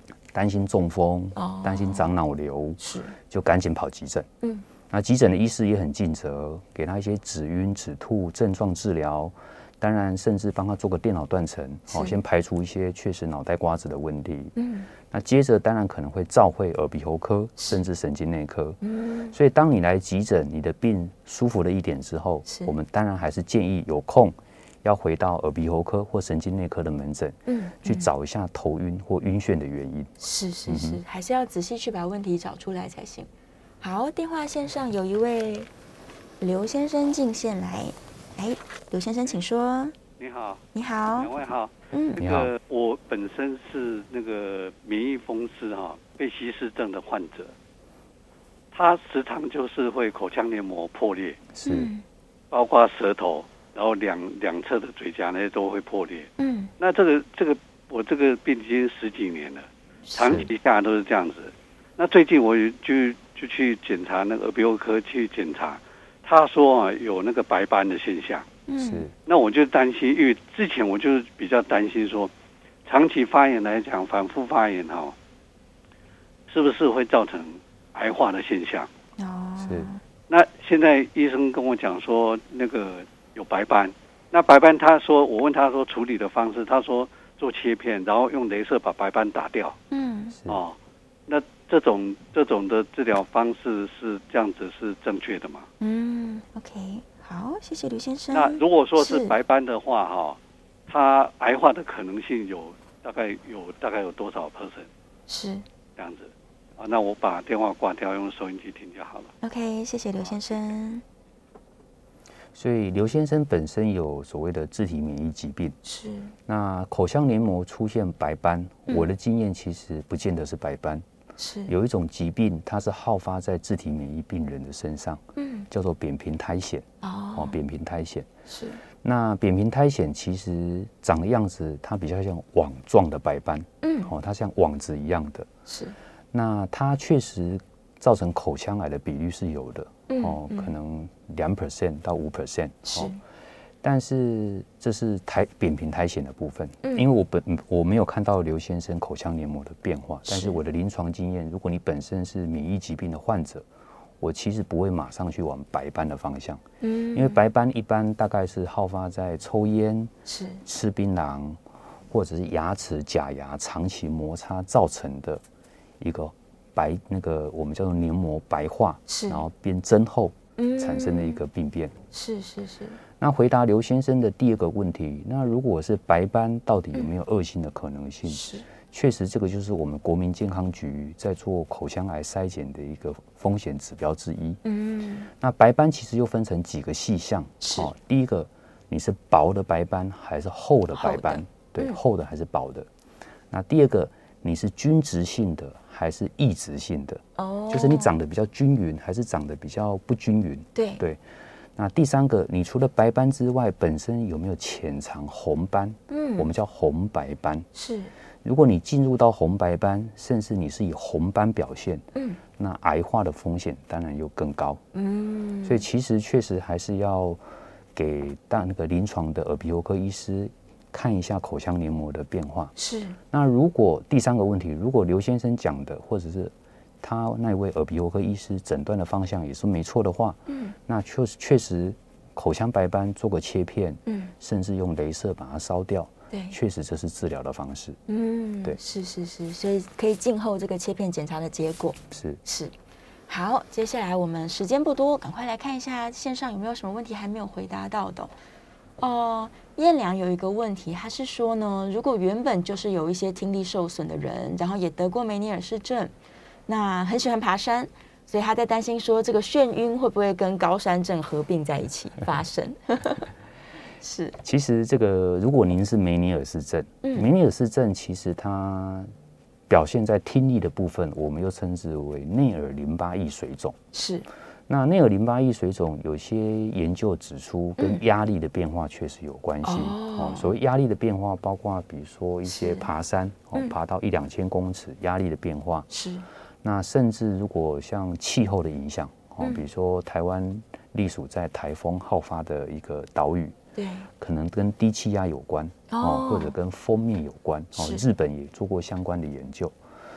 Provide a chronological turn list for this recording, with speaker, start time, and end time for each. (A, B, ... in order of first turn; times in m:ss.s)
0:00.3-0:04.3 A
0:01.4-0:02.1 B
0:02.8-0:03.2 B
0:04.9-0:14.6 A
0:11.9-0:12.2 B
0:14.6-0:14.9 B
0:15.1-0:18.8 A
0:17.6-0:17.8 B
0:18.8-0:19.4 B
0:19.3-0:30.1 A
0:22.5-0:22.8 B
0:27.5-0:28.1 B
0:30.2-0:33.3 B
0:30.7-0:31.0 A
0:33.8-0:35.7 B
0:36.4-0:40.0 B
0:40.2-0:47.5 C
0:40.7-0:41.3 B
0:41.9-0:42.2 B
0:42.2-0:42.5 A
0:48.7-0:51.4 C
0:51.5-0:51.9 A
0:51.6-0:52.0 B
0:52.5-1:08.5 C
0:56.4-0:56.7 B
1:00.2-1:00.5 A
1:08.7-1:09.1 B
1:08.8-1:09.1 A
1:09.3-1:12.3 C
1:12.9-1:15.2 C
1:16.5-1:18.9 C
1:19.2-1:20.0 B
1:19.6-1:19.9 A
1:20.3-1:29.8 C
1:29.9-1:30.4 B
1:30.5-1:30.8 C
1:31.3-1:35.7 C
1:35.8-1:39.4 B
1:38.3-1:44.9 C
1:45.3-1:45.6 B
1:46.0-1:49.3 C
1:49.4-1:51.0 B
1:52.6-1:55.8 A
1:55.8-1:56.3 B
1:56.5-2:01.0 A
2:01.4-2:01.7 B
2:01.7-2:08.3 A
2:05.4-2:05.7 B
2:07.0-2:07.6 B
2:08.5-2:08.8 B
2:09.0-2:15.5 A
2:13.8-2:14.1 B
2:15.7-2:16.0 B
2:16.3-2:23.1 A
2:20.1-2:20.7 B
2:22.8-2:23.2 B
2:23.8-2:33.7 A
2:30.3-2:30.6 B
2:34.2-2:36.6 A
2:36.8-2:37.4 B
2:37.1-2:40.1 A
2:40.3-2:40.6 B
2:40.6-2:45.4 A
2:46.0-2:52.0 A
2:49.1-2:49.4 B
2:50.6-2:51.4 B
2:52.1-2:53.0 B
2:53.2-3:04.6 A
2:58.3-2:58.7 B
3:04.6-3:05.3 B
3:05.4-3:12.9 A
3:07.6-3:07.9 B
3:10.9-3:12.0 B
3:13.5-3:21.2 A
3:17.4-3:18.1 B
3:20.8-3:21.0 B
3:21.8-3:27.7 A
3:26.1-3:26.5 B
3:27.7-3:28.1 B
3:28.4-3:32.1 A
3:32.2-3:32.4 B
3:32.6-3:34.8 A
3:34.9-3:35.8 B
3:35.6-3:37.4 A
3:38.0-3:42.7 A
3:42.8-3:43.2 B
3:43.3-3:58.0 A
3:50.5-3:50.8 B
3:54.1-3:54.3 B
3:56.3-3:56.6 B
3:58.1-4:02.7 B
4:02.1-4:02.4 A
4:03.3-4:08.3 B
4:09.0-4:16.1 B
4:16.7-4:23.3 B
4:24.0-4:24.4 B
4:24.4-4:29.1 A
4:27.0-4:27.3 B
4:29.7-4:33.8 A
4:33.9-4:34.3 B
4:34.7-4:45.9 A
4:39.6-4:40.5 B
4:42.5-4:42.9 B
4:45.9-4:46.2 B
4:46.6-4:53.6 A
4:53.8-4:54.1 B
4:54.2-4:59.8 A
4:55.9-4:56.5 B
4:57.8-4:58.0 B